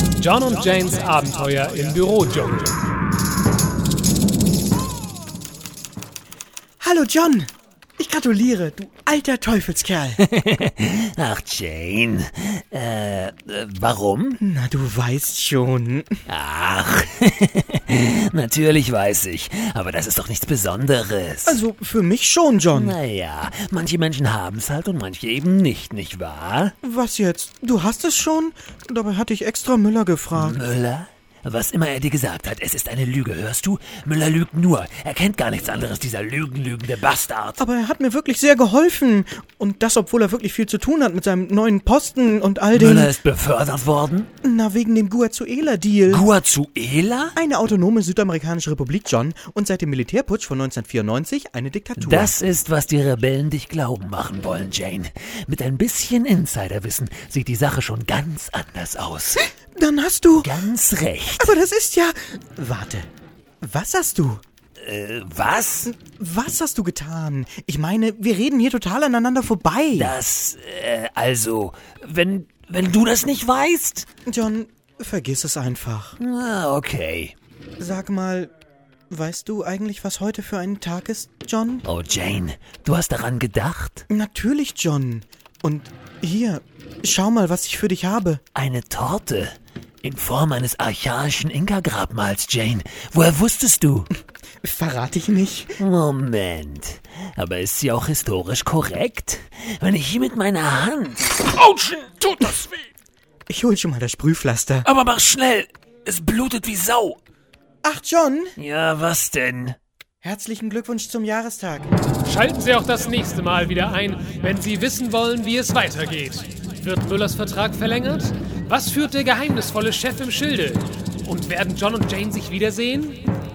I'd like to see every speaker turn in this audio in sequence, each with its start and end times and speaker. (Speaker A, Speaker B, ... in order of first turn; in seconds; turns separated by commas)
Speaker A: 0.2-2.7, Speaker B: 6.8-10.2, Speaker C: 10.2-14.4, Speaker B: 14.4-16.1, Speaker C: 16.3-21.6, Speaker B: 21.4-23.0, Speaker C: 22.7-26.8, Speaker B: 26.8-30.6, Speaker C: 30.3-37.6, Speaker B: 37.6-43.1, Speaker C: 42.7-44.3, Speaker B: 44.4-46.2, Speaker C: 46.1-47.4, Speaker B: 47.3-52.3, Speaker C: 52.0-59.5, Speaker B: 59.7-60.5, Speaker C: 60.4-61.5, Speaker B: 61.4-63.1, Speaker B: 63.6-64.4, Speaker C: 64.8-65.9, Speaker B: 65.8-70.2, Speaker C: 69.9-74.1, Speaker B: 74.2-76.2, Speaker C: 76.2-77.3, Speaker B: 77.8-78.5, Speaker B: 79.1-81.8, Speaker C: 81.8-84.0, Speaker B: 84.1-88.4, Speaker C: 88.5-94.1, Speaker B: 94.6-95.8, Speaker C: 95.8-102.7, Speaker B: 103.5-104.9, Speaker C: 104.8-107.2, Speaker B: 107.8-108.5, Speaker C: 108.5-109.8, Speaker B: 110.2-111.9, Speaker A: 112.2-123.2